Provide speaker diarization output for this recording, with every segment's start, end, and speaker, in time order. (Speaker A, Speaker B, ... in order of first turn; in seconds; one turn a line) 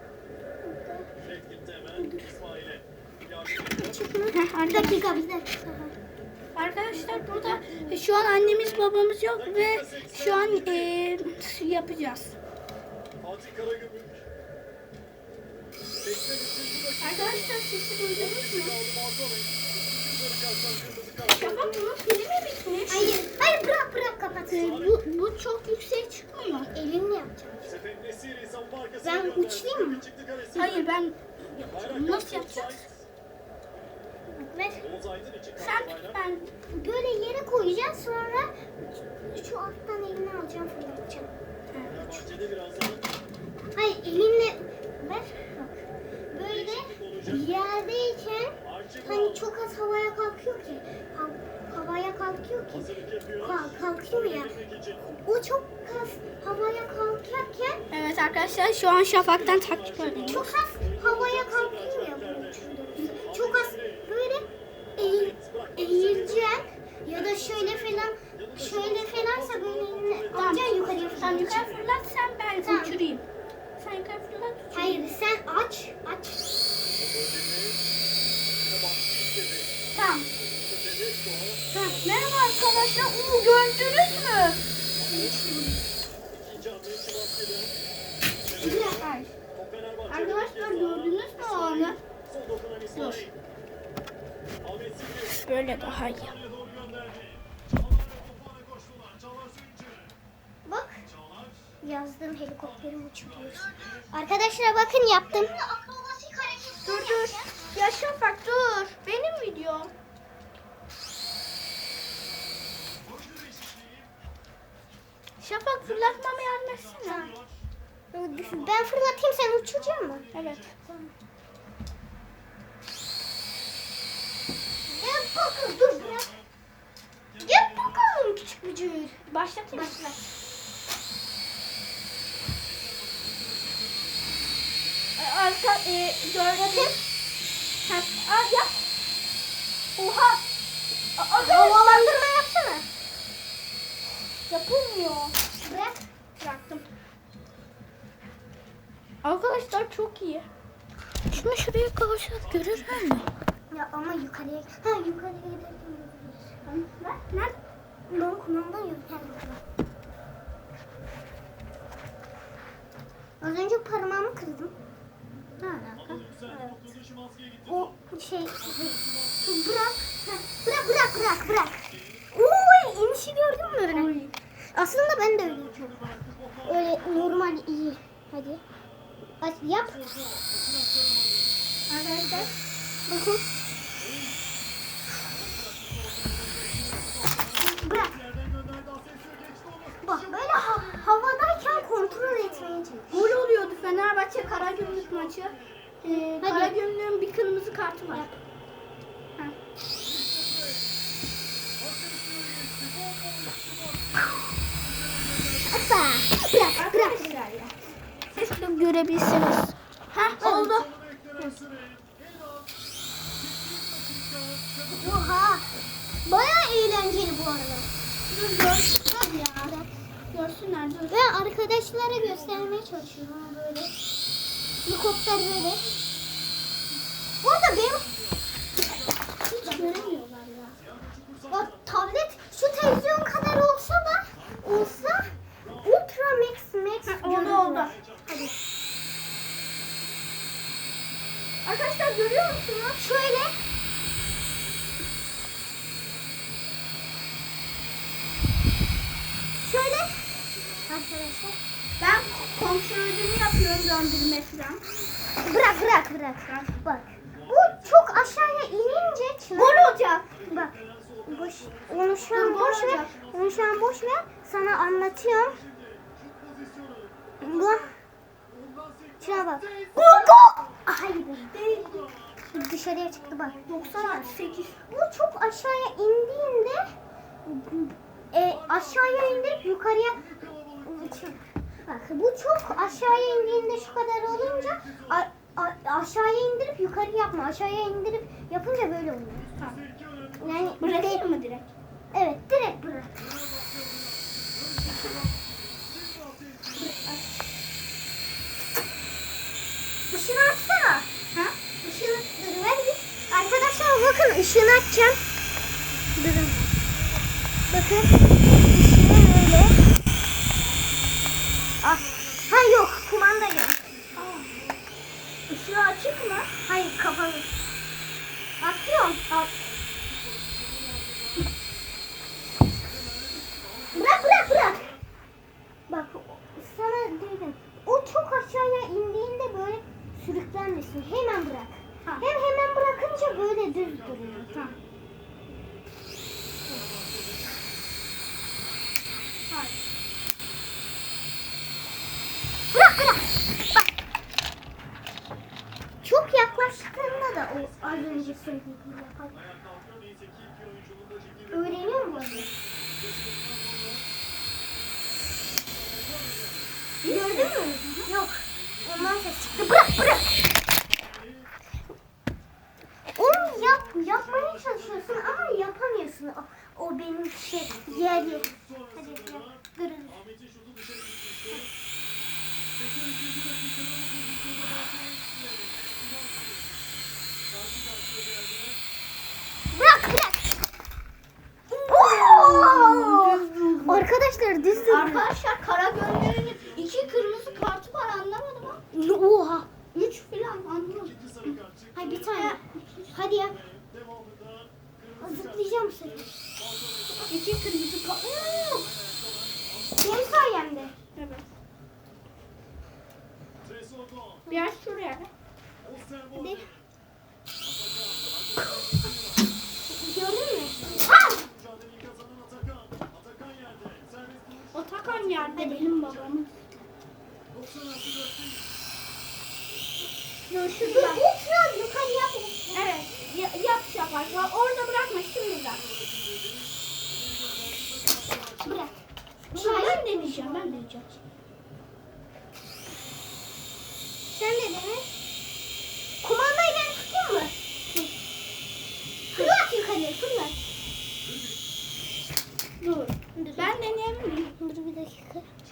Speaker A: 0.6-1.1
Speaker B: 1.3-1.8
Speaker C: 2.0-2.4
Speaker A: 3.7-5.9
Speaker C: 4.3-5.2
Speaker C: 6.5-12.3
Speaker A: 6.9-8.0
Speaker B: 9.6-10.6
Speaker B: 13.2-14.1
Speaker B: 16.1-17.3
Speaker C: 17.0-18.8
Speaker B: 20.5-21.2
Speaker C: 21.2-23.2
Speaker A: 22.9-24.8
Speaker C: 24.5-26.7
Speaker A: 26.7-27.8
Speaker B: 27.9-28.9
Speaker A: 29.0-30.1
Speaker C: 30.5-32.9
Speaker B: 32.0-32.8
Speaker A: 34.3-34.9
Speaker C: 35.5-36.5
Speaker A: 36.7-41.3
Speaker C: 41.7-42.1
Speaker A: 43.7-54.6
Speaker A: 55.2-57.8
Speaker C: 57.9-60.4
Speaker B: 59.7-60.1
Speaker A: 60.2-71.7
Speaker C: 63.0-63.2
Speaker B: 68.7-69.5
Speaker C: 70.3-73.2
Speaker A: 72.6-73.0
Speaker C: 73.8-75.1
Speaker A: 74.7-76.4
Speaker C: 79.9-80.3
Speaker A: 81.7-82.0
Speaker C: 82.0-84.6
Speaker A: 85.1-85.8
Speaker A: 88.5-89.1
Speaker C: 88.6-89.3
Speaker C: 90.1-92.0
Speaker C: 92.9-93.3
Speaker C: 95.3-96.4
Speaker B: 96.6-97.2
Speaker A: 100.6-101.0
Speaker A: 101.8-107.6
Speaker C: 106.8-109.9
Speaker C: 115.4-117.3
Speaker A: 117.0-117.3
Speaker A: 118.1-120.3
Speaker C: 120.3-120.7
Speaker A: 120.8-121.1
Speaker A: 124.9-126.4
Speaker A: 127.4-129.2
Speaker C: 129.3-130.0
Speaker A: 129.7-130.2
Speaker C: 135.2-137.0
Speaker A: 136.5-137.0
Speaker C: 137.8-138.7
Speaker C: 140.0-140.4
Speaker C: 141.2-142.2
Speaker A: 141.4-142.9
Speaker C: 144.5-145.3
Speaker A: 145.6-146.1
Speaker C: 146.4-146.9
Speaker C: 149.2-150.5
Speaker C: 151.3-153.3
Speaker A: 153.7-156.5
Speaker C: 156.6-157.6
Speaker A: 158.1-159.6
Speaker A: 163.4-164.7
Speaker A: 165.6-166.9
Speaker A: 167.7-174.2
Speaker C: 173.9-174.3
Speaker A: 174.7-176.0
Speaker A: 176.6-178.6
Speaker A: 179.4-180.0
Speaker C: 181.9-182.5
Speaker A: 182.1-182.5
Speaker A: 183.1-183.4
Speaker A: 187.6-188.2
Speaker B: 188.9-189.3
Speaker A: 190.0-193.2
Speaker C: 193.1-198.3
Speaker A: 196.1-196.8
Speaker B: 202.1-203.8
Speaker A: 205.6-207.4
Speaker C: 206.4-207.8
Speaker C: 208.3-210.9
Speaker A: 210.4-210.8
Speaker B: 211.5-212.0
Speaker B: 214.2-214.7
Speaker A: 214.9-217.9
Speaker C: 218.3-219.7
Speaker A: 219.6-219.9
Speaker C: 220.3-221.2
Speaker A: 221.1-223.9
Speaker A: 224.8-225.9
Speaker A: 227.4-228.1
Speaker A: 229.5-230.0
Speaker C: 229.6-230.8
Speaker A: 231.5-238.5
Speaker C: 237.1-237.9
Speaker C: 241.6-243.0
Speaker A: 243.0-243.6
Speaker A: 249.6-250.3
Speaker A: 250.8-251.6
Speaker C: 252.0-254.8
Speaker A: 255.4-265.6
Speaker C: 256.4-256.8
Speaker C: 259.5-260.3
Speaker C: 262.3-263.1
Speaker A: 267.4-267.9
Speaker A: 269.2-271.9
Speaker C: 270.0-270.3
Speaker C: 271.5-272.1
Speaker A: 272.5-274.3
Speaker C: 273.6-274.8
Speaker A: 274.9-289.5
Speaker A: 290.4-291.2
Speaker C: 290.8-291.7
Speaker A: 292.1-293.3
Speaker C: 296.8-297.2
Speaker A: 300.1-301.1
Speaker A: 301.8-305.2
Speaker A: 306.1-306.7
Speaker A: 307.7-309.9
Speaker A: 311.8-313.8
Speaker C: 314.1-314.5
Speaker C: 315.5-316.5
Speaker A: 316.6-317.5
Speaker A: 318.6-319.2
Speaker A: 323.9-324.9
Speaker C: 324.0-324.8
Speaker A: 325.9-334.5
Speaker C: 334.5-334.8
Speaker C: 339.5-339.8
Speaker A: 342.7-343.9
Speaker A: 346.0-349.4
Speaker A: 351.5-352.5
Speaker C: 357.0-358.1
Speaker A: 357.0-360.4
Speaker A: 363.1-370.2
Speaker A: 379.7-380.6
Speaker C: 381.7-384.1
Speaker A: 381.9-385.3
Speaker C: 384.8-388.8
Speaker A: 388.9-389.7
Speaker C: 389.9-391.6
Speaker A: 391.9-392.6
Speaker C: 392.3-393.1
Speaker A: 393.1-393.6
Speaker A: 395.2-396.3
Speaker C: 397.1-398.6
Speaker A: 398.2-398.9
Speaker A: 399.9-400.9
Speaker C: 401.1-401.4
Speaker C: 404.5-405.3
Speaker A: 406.3-406.7
Speaker A: 409.9-411.5
Speaker C: 414.7-416.6
Speaker A: 415.6-416.0
Speaker C: 420.5-421.2
Speaker A: 420.8-422.9
Speaker C: 422.7-425.8
Speaker A: 428.6-428.9
Speaker A: 429.5-430.8
Speaker C: 429.5-431.2
Speaker A: 434.3-435.1
Speaker A: 436.2-437.6
Speaker A: 439.3-440.6
Speaker C: 442.8-444.6
Speaker A: 443.3-443.8
Speaker A: 444.6-445.5